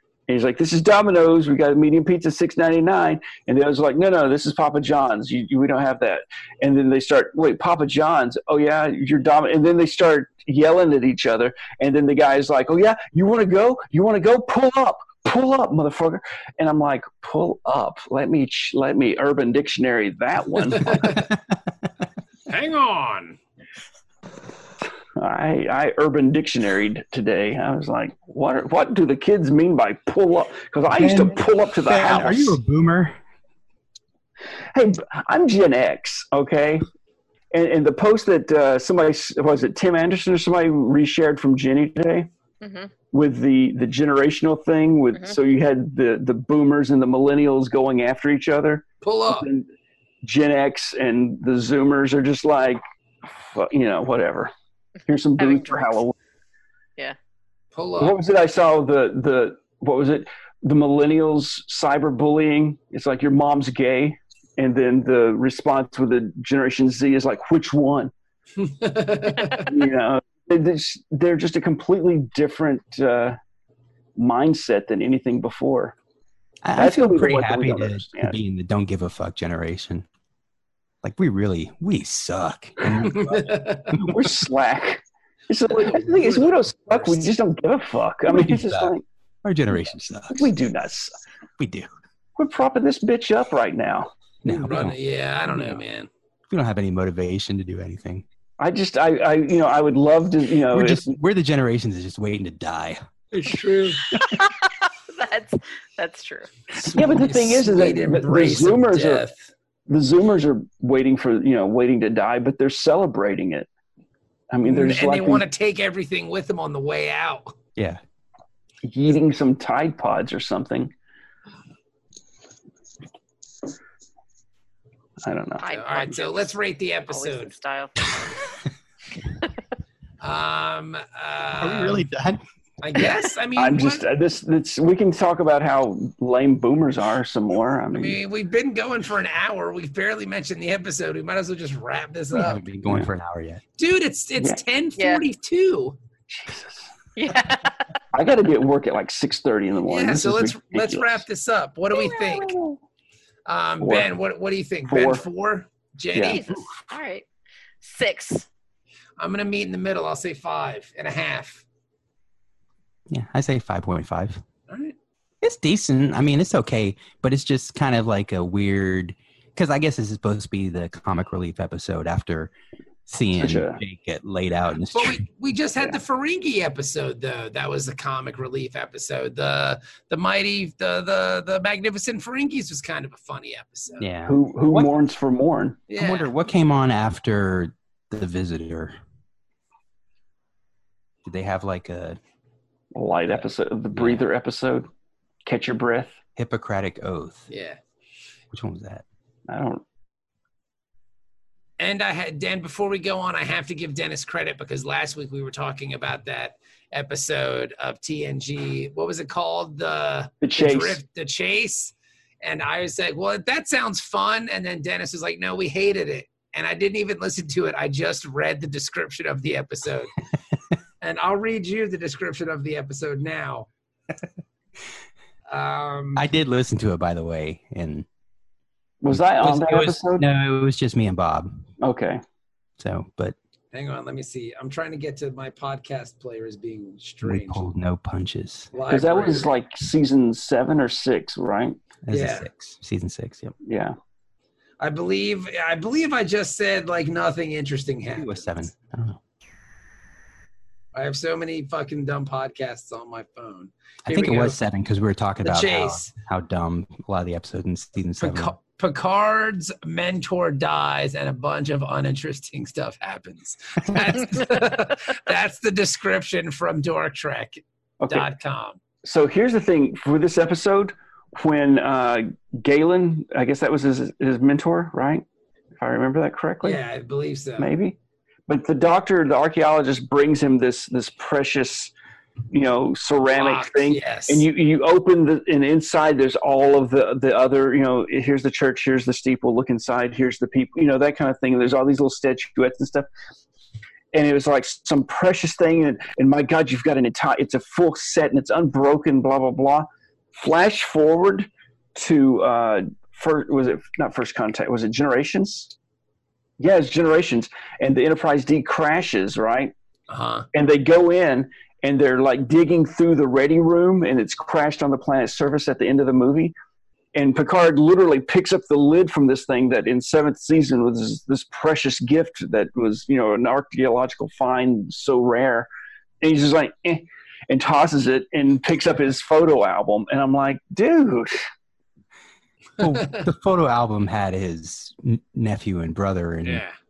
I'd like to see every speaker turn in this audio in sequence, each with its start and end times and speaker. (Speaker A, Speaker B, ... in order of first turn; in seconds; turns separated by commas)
Speaker A: 0.3-21.2, Speaker B: 20.7-21.3, Speaker B: 22.5-23.4, Speaker A: 25.1-32.6, Speaker C: 30.9-33.2, Speaker A: 34.7-36.9, Speaker A: 37.5-42.3, Speaker D: 42.6-42.9, Speaker A: 43.1-49.7, Speaker B: 49.0-49.5, Speaker A: 50.2-54.5, Speaker A: 55.1-56.1, Speaker D: 55.4-56.0, Speaker B: 57.7-58.2, Speaker A: 58.0-68.1, Speaker B: 68.6-69.7, Speaker A: 69.4-73.4, Speaker A: 74.2-75.9, Speaker C: 76.6-80.0, Speaker A: 76.8-78.4, Speaker C: 81.0-84.2, Speaker B: 83.0-84.0, Speaker A: 83.9-89.0, Speaker B: 85.7-87.3, Speaker C: 88.3-88.9, Speaker C: 89.4-90.5, Speaker A: 90.3-91.2, Speaker C: 91.6-91.9, Speaker A: 92.3-94.7, Speaker C: 94.4-95.0, Speaker B: 94.5-96.1, Speaker C: 96.5-98.2, Speaker A: 98.6-101.2, Speaker C: 100.7-103.0, Speaker B: 103.3-104.2, Speaker D: 105.1-106.5, Speaker A: 106.7-109.2, Speaker B: 106.8-109.5, Speaker A: 109.9-113.7, Speaker A: 114.5-115.4, Speaker B: 114.6-117.5, Speaker A: 118.8-120.9, Speaker A: 125.2-125.6, Speaker D: 125.6-126.5, Speaker B: 125.7-127.5, Speaker D: 127.1-128.1, Speaker B: 130.2-132.0, Speaker C: 131.6-132.4, Speaker B: 132.8-134.0, Speaker A: 133.6-138.2, Speaker B: 137.9-142.6, Speaker C: 142.3-143.6, Speaker B: 143.8-146.0, Speaker D: 145.0-145.2, Speaker A: 146.3-146.9, Speaker D: 147.2-147.9, Speaker A: 148.1-151.2, Speaker B: 149.9-152.6, Speaker A: 152.0-152.8, Speaker B: 153.4-156.6, Speaker A: 153.8-154.1, Speaker A: 154.9-155.2, Speaker A: 156.1-156.5, Speaker D: 156.2-157.2, Speaker D: 157.8-158.4, Speaker B: 159.2-161.6, Speaker C: 163.1-164.4, Speaker B: 164.7-164.9, Speaker C: 165.4-172.5, Speaker C: 173.1-175.2, Speaker A: 173.4-173.8, Speaker B: 174.9-184.1, Speaker C: 184.0-184.9, Speaker A: 184.2-185.8, Speaker B: 185.9-186.3, Speaker C: 186.0-188.9, Speaker C: 191.2-192.2, Speaker A: 192.9-194.9, Speaker C: 193.9-194.2, Speaker A: 195.4-196.2, Speaker C: 196.3-197.4, Speaker B: 197.5-197.8, Speaker C: 198.5-199.0, Speaker A: 199.5-199.8, Speaker B: 201.8-220.1, Speaker A: 210.4-211.0, Speaker B: 221.0-223.7, Speaker B: 225.5-226.2, Speaker C: 226.2-228.1, Speaker A: 229.0-230.2, Speaker C: 229.4-231.7, Speaker A: 231.8-232.2, Speaker C: 232.8-233.3, Speaker B: 233.7-237.7, Speaker C: 237.2-238.7, Speaker B: 238.7-239.5, Speaker A: 238.9-241.8, Speaker C: 242.1-243.5, Speaker B: 242.1-242.5, Speaker A: 243.6-243.9, Speaker B: 244.8-248.5, Speaker C: 248.2-249.2, Speaker B: 250.9-254.6, Speaker C: 254.1-258.5, Speaker B: 255.4-256.1, Speaker B: 258.2-268.8, Speaker A: 268.0-268.3, Speaker A: 269.0-276.8, Speaker B: 276.6-277.7, Speaker A: 277.6-278.0, Speaker A: 278.5-281.9, Speaker A: 282.5-293.1, Speaker B: 283.4-284.5, Speaker A: 294.1-305.7, Speaker A: 306.6-309.7, Speaker B: 310.1-310.5, Speaker A: 310.5-316.5, Speaker A: 317.1-325.7, Speaker A: 326.2-331.5, Speaker C: 332.8-336.6, Speaker B: 332.8-333.1, Speaker B: 336.4-336.7